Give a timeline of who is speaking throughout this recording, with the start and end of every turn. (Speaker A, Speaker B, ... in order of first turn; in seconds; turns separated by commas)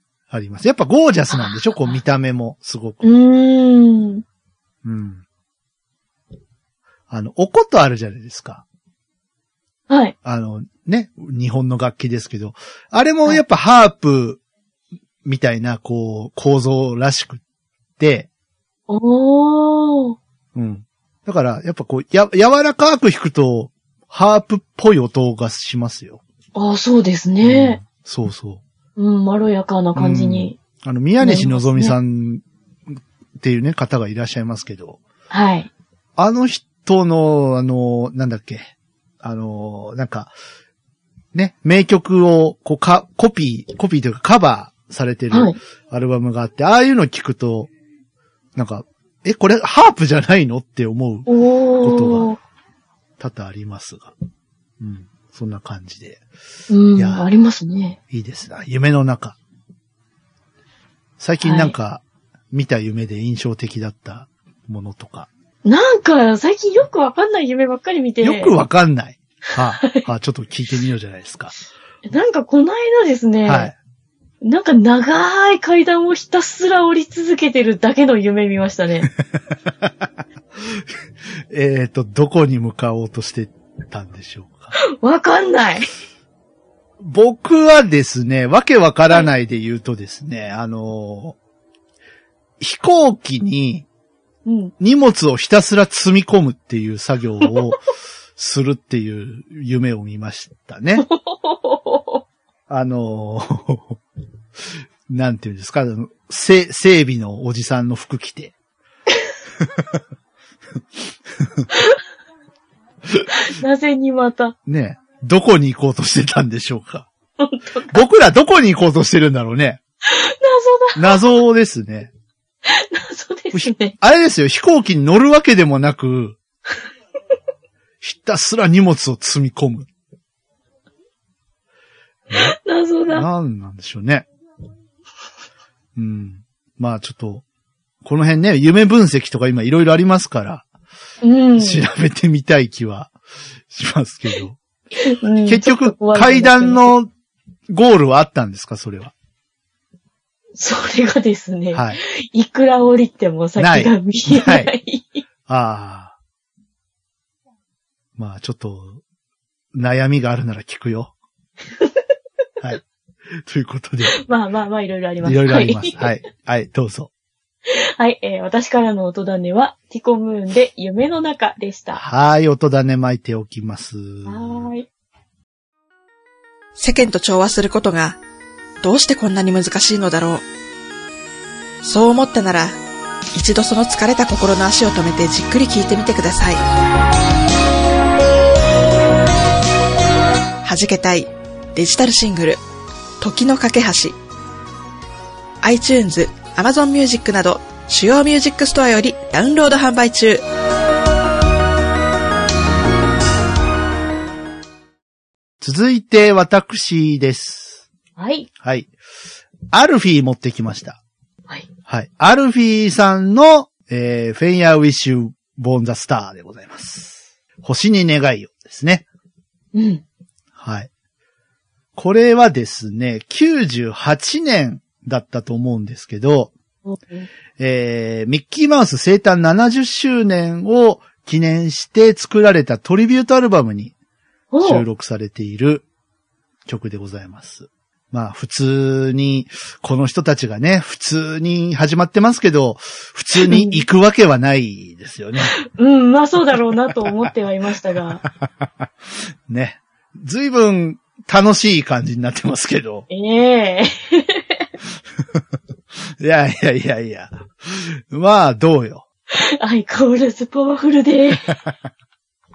Speaker A: 0.3-3.0, Speaker B: 1.3-2.0, Speaker B: 3.0-4.2, Speaker A: 4.8-5.2, Speaker A: 7.1-8.6, Speaker B: 9.9-10.2, Speaker A: 10.2-14.4, Speaker A: 15.2-17.4, Speaker A: 18.0-18.3, Speaker B: 18.9-20.2, Speaker A: 20.6-26.2, Speaker B: 26.6-27.8, Speaker A: 27.4-28.6, Speaker B: 29.0-30.6, Speaker A: 29.9-35.0, Speaker B: 31.2-32.0, Speaker B: 35.3-35.7, Speaker A: 36.2-38.7, Speaker A: 39.2-40.3, Speaker A: 41.3-47.7, Speaker A: 48.5-51.3, Speaker B: 51.3-52.4, Speaker A: 51.8-52.3, Speaker A: 53.2-54.1, Speaker A: 54.8-56.2, Speaker B: 56.7-58.0, Speaker A: 57.0-57.3, Speaker A: 58.1-59.4, Speaker A: 61.2-65.3, Speaker B: 61.4-61.8, Speaker B: 65.7-68.5, Speaker A: 68.2-71.5, Speaker B: 69.8-70.1, Speaker B: 72.1-73.7, Speaker A: 73.4-73.8, Speaker B: 74.4-79.1, Speaker A: 81.5-84.7, Speaker B: 85.0-85.9, Speaker A: 87.0-91.4, Speaker A: 92.6-93.9, Speaker B: 94.4-94.7, Speaker A: 94.8-97.8, Speaker A: 98.4-101.1, Speaker B: 101.0-102.2, Speaker A: 102.7-104.0, Speaker A: 105.1-108.5, Speaker B: 113.3-114.5, Speaker A: 114.7-117.1, Speaker B: 117.4-118.0, Speaker A: 117.9-119.8, Speaker B: 120.0-121.2, Speaker A: 121.0-122.1, Speaker B: 122.6-124.0, Speaker A: 123.5-126.4, Speaker A: 128.0-129.9, Speaker B: 132.3-133.2, Speaker A: 133.1-134.2, Speaker A: 136.0-137.4, Speaker A: 138.0-140.6, Speaker B: 141.2-141.8, Speaker A: 141.6-143.1, Speaker A: 143.7-144.6, Speaker B: 145.0-146.9, Speaker A: 145.5-147.1, Speaker A: 147.7-149.1, Speaker B: 150.6-155.2, Speaker A: 151.7-152.0, Speaker A: 153.6-154.7, Speaker A: 155.5-156.1, Speaker A: 158.2-159.0, Speaker A: 159.7-161.1, Speaker A: 163.5-164.2, Speaker B: 164.1-166.1, Speaker A: 165.2-167.1, Speaker B: 167.7-172.0, Speaker A: 171.9-174.7, Speaker B: 174.2-174.9, Speaker C: 176.8-178.2, Speaker C: 178.8-180.4, Speaker C: 181.8-182.8, Speaker C: 183.3-186.6, Speaker C: 190.6-192.6, Speaker C: 193.2-194.2, Speaker C: 195.6-200.4, Speaker A: 205.6-207.8, Speaker B: 208.2-208.5, Speaker A: 208.6-208.9, Speaker A: 209.7-211.0, Speaker A: 211.9-219.1, Speaker B: 219.7-220.0, Speaker A: 220.6-220.9, Speaker A: 222.0-226.5, Speaker B: 226.9-227.3, Speaker A: 227.6-233.9, Speaker B: 234.5-234.8, Speaker A: 234.6-235.8, Speaker A: 236.7-245.5, Speaker B: 243.4-243.8, Speaker B: 245.5-248.2, Speaker A: 248.4-248.8, Speaker A: 249.5-253.1, Speaker B: 253.1-254.6, Speaker A: 256.2-259.1, Speaker B: 259.3-261.6